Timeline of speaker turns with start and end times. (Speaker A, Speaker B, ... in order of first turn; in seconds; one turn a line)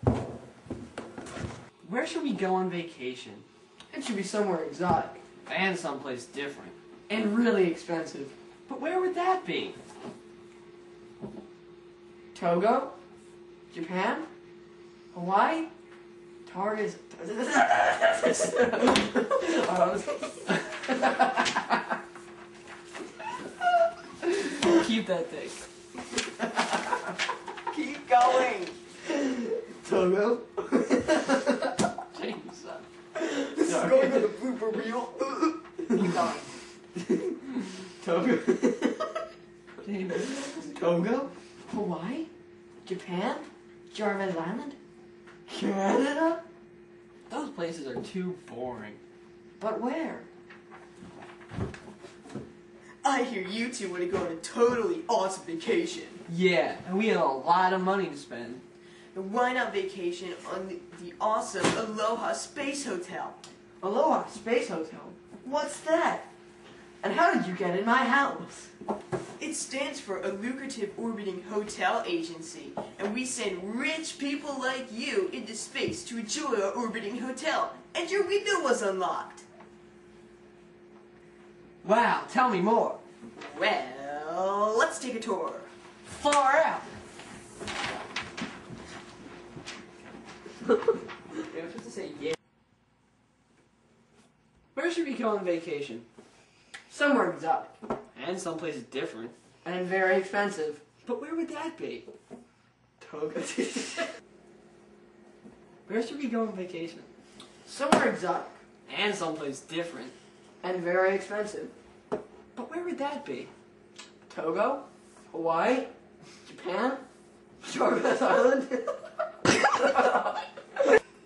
Speaker A: 1.8-3.5
Speaker B: 3.9-5.2
Speaker A: 5.5-6.7
Speaker B: 7.1-8.3
Speaker A: 8.7-9.8
Speaker B: 12.3-12.9
Speaker B: 13.7-14.3
Speaker B: 15.1-15.7
Speaker B: 16.4-20.4
Speaker A: 24.2-25.6
Speaker C: 27.7-28.8
Speaker B: 29.1-31.7
Speaker A: 32.1-32.8
Speaker B: 33.3-36.4
Speaker A: 33.6-34.3
Speaker C: 34.2-34.7
Speaker B: 38.0-39.1
Speaker A: 39.8-40.8
Speaker B: 40.6-42.3
Speaker B: 42.8-44.8
Speaker B: 45.5-46.4
Speaker A: 47.3-49.0
Speaker B: 49.6-50.3
Speaker C: 53.0-56.2
Speaker A: 56.3-58.6
Speaker C: 59.1-63.4
Speaker B: 63.8-65.6
Speaker C: 65.4-66.2
Speaker B: 67.0-68.7
Speaker C: 69.4-79.4
Speaker A: 81.8-83.0
Speaker C: 83.3-85.7
Speaker A: 86.1-86.8
Speaker A: 91.4-92.3
Speaker A: 94.7-96.0
Speaker B: 96.9-97.8
Speaker A: 98.1-99.3
Speaker B: 99.6-100.8
Speaker A: 101.0-102.1
Speaker B: 103.0-104.1
Speaker A: 105.9-107.1
Speaker B: 107.6-108.6
Speaker A: 108.9-110.1
Speaker B: 110.6-111.7
Speaker A: 112.5-113.5
Speaker B: 114.3-115.9
Speaker B: 116.4-117.0
Speaker B: 117.6-120.5